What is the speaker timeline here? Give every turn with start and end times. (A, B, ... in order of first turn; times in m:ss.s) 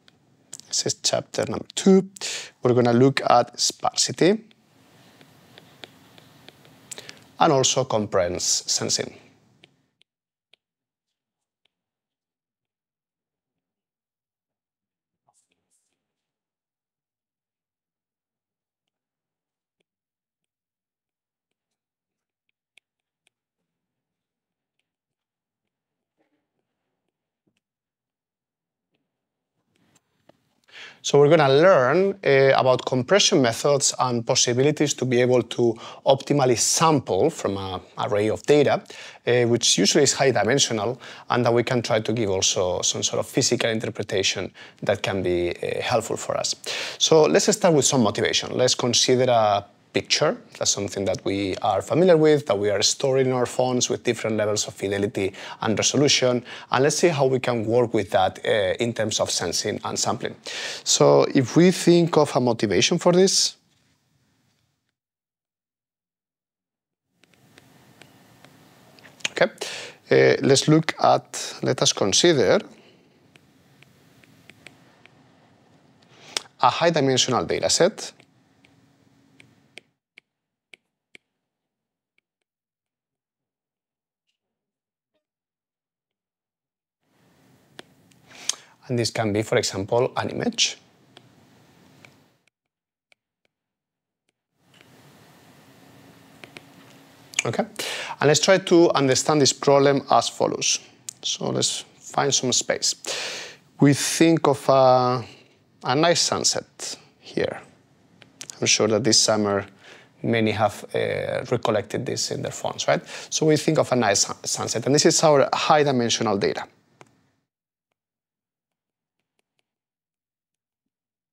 0:00.7-0:04.4 A
0:07.4-0:09.2 A
0:31.0-1:03.6 A
1:09.3-1:12.6 A
1:16.6-1:18.1 A
1:28.8-1:30.8 A
1:38.2-1:45.3 A
1:45.8-1:47.6 A
1:48.6-1:49.7 A
1:50.2-1:56.6 A